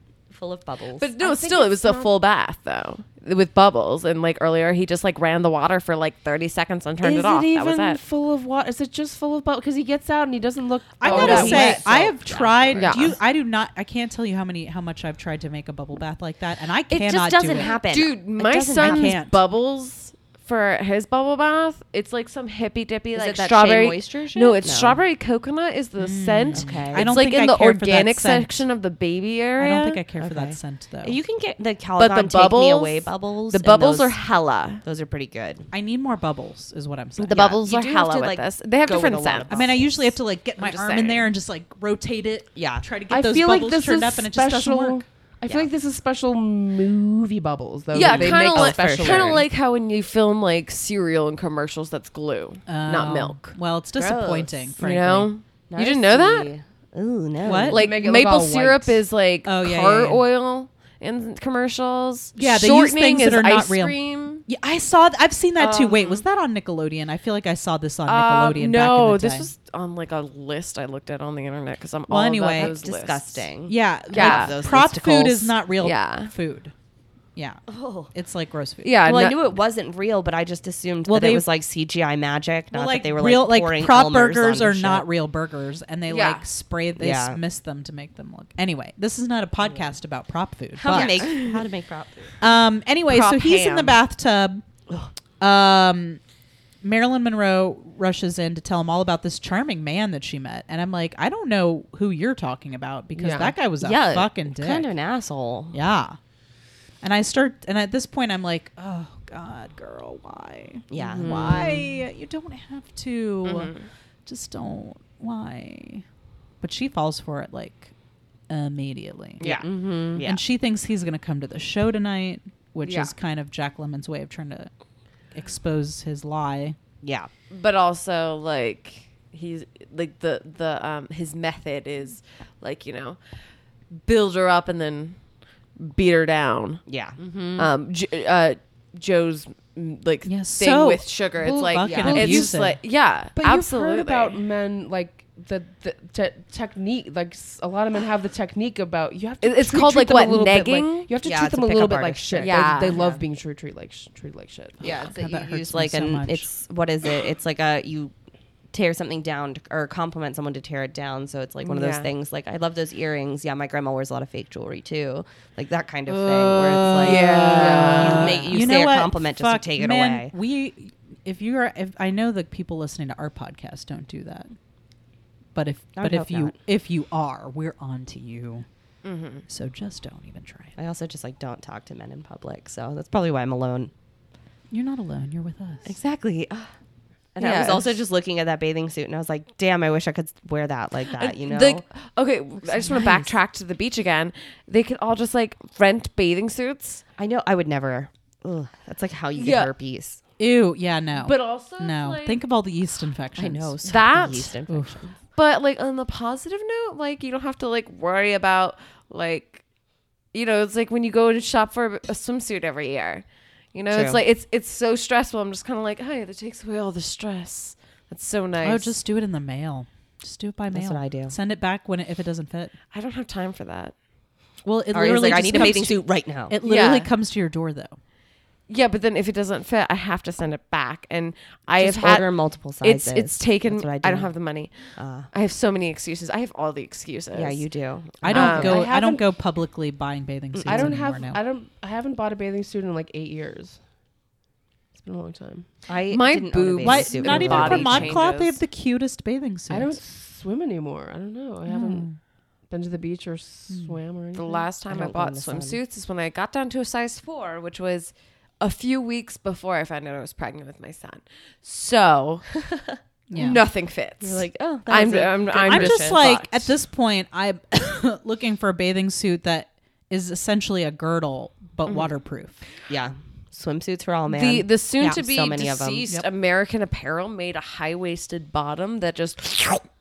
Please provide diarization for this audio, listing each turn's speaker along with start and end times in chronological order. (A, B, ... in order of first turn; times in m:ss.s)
0:00.3-0:01.1 A
0:01.0-0:08.0 B
0:01.2-0:02.1 C
0:07.0-0:12.4 C
0:11.0-0:17.8 D
0:11.0-0:13.1 A
0:11.2-0:11.7 B
0:12.8-0:13.2 B
0:16.9-0:19.2 A
0:17.4-0:30.0 B
0:18.8-0:19.4 D
0:23.1-0:25.0 A
0:26.0-0:28.6 D
0:26.5-0:27.1 A
0:29.6-0:31.2 D
0:30.2-0:34.2 A
0:32.0-0:34.8 B
0:34.8-0:35.7 A
0:35.7-0:37.5 D
0:37.2-0:40.1 A
0:37.3-0:39.8 B
0:39.5-0:45.0 D
0:40.6-0:41.3 B
0:42.5-0:42.9 A
0:43.1-0:49.4 C
0:47.9-0:53.4 B
0:47.9-0:49.4 A
0:52.7-0:55.3 D
0:54.0-0:54.6 A
0:54.8-0:56.5 B
0:55.7-0:57.8 A
0:57.4-0:57.8 D
0:57.7-1:04.4 B
0:57.7-0:59.0 C
0:59.4-1:00.2 D
1:02.4-1:09.5 D
1:05.6-1:06.2 B
1:08.0-1:13.5 B
1:12.1-1:12.7 D
1:12.6-1:15.6 A
1:13.7-1:16.7 D
1:14.1-1:14.7 B
1:15.8-1:16.3 B
1:17.4-1:18.9 D
1:17.7-1:18.1 A
1:18.8-1:19.4 B
1:19.0-1:25.0 A
1:21.0-1:21.5 D
1:22.7-1:31.6 D
1:26.1-1:26.4 B
1:27.0-1:27.4 A
1:30.7-1:32.4 A
1:30.9-1:31.2 B
1:32.4-1:34.6 D
1:33.1-1:34.0 B
1:35.4-1:36.2 D
1:36.8-1:44.9 D
1:43.2-1:43.5 C
1:43.8-1:45.8 A
1:45.7-1:46.2 D
1:47.0-1:56.0 D
1:50.9-1:51.8 A
1:51.0-1:51.7 C
1:53.4-1:53.9 B
1:56.6-1:57.9 D
1:58.5-1:59.6 D
1:59.4-2:00.4 A
1:59.4-2:00.2 B
2:00.2-2:04.7 D
2:02.8-2:03.1 B
2:05.3-2:06.8 D
2:07.0-2:07.3 A
2:07.5-2:13.2 B
2:14.0-2:15.2 B
2:15.8-2:16.8 B
2:16.9-2:17.2 A
2:17.2-2:17.7 C
2:17.6-2:24.3 B
2:20.2-2:22.8 D
2:21.8-2:22.5 C
2:23.4-2:34.8 C
2:29.4-2:31.1 B
2:31.2-2:33.2 A
2:32.4-2:33.0 B
2:34.8-2:38.1 A
2:34.9-2:36.5 D
2:38.7-2:50.3 A
2:41.6-2:42.1 B
2:46.1-2:54.5 D
2:47.0-2:48.5 B
2:47.4-2:48.4 C
2:55.5-2:58.6 D
2:56.0-2:56.5 A
2:59.0-2:59.4 B
2:59.5-3:00.7 D
3:00.8-3:03.9 A
3:04.7-3:05.9 D
3:05.8-3:06.7 A
3:07.3-3:11.8 A
3:07.4-3:08.0 B
3:11.1-3:17.0 B
3:12.8-3:13.1 D
3:17.2-3:20.2 A
3:19.4-3:19.7 B
3:20.4-3:23.8 D
3:21.2-3:22.4 B
3:23.4-3:25.1 A
3:23.8-3:24.5 B
3:24.7-3:24.9 D
3:25.3-3:29.6 B
3:30.3-3:38.9 B
3:33.9-3:34.2 A
3:38.6-3:42.7 D
3:40.7-3:41.3 A
3:42.9-3:43.9 B
3:44.6-3:48.0 D
3:44.9-3:46.6 A
3:45.5-3:45.8 B
3:46.6-3:47.1 B
3:48.7-3:57.6 B
3:51.8-3:54.3 A
3:55.0-3:55.3 A
3:57.3-3:58.8 A
3:58.2-4:01.4 D
3:58.3-3:58.8 B
3:58.6-3:59.2 C
4:00.5-4:00.9 A
4:00.6-4:03.8 C
4:04.9-4:05.7 C
4:05.9-4:08.2 A
4:06.1-4:08.6 B
4:06.8-4:10.0 D
4:09.7-4:12.2 C
4:11.7-4:12.1 D
4:12.7-4:14.7 C
4:13.7-4:14.0 D
4:14.3-4:22.5 B
4:14.9-4:15.8 A
4:23.3-4:23.6 D
4:23.3-4:26.4 B
4:24.2-4:26.5 A
4:25.6-4:32.6 D
4:32.9-4:36.0 A
4:34.3-4:39.8 B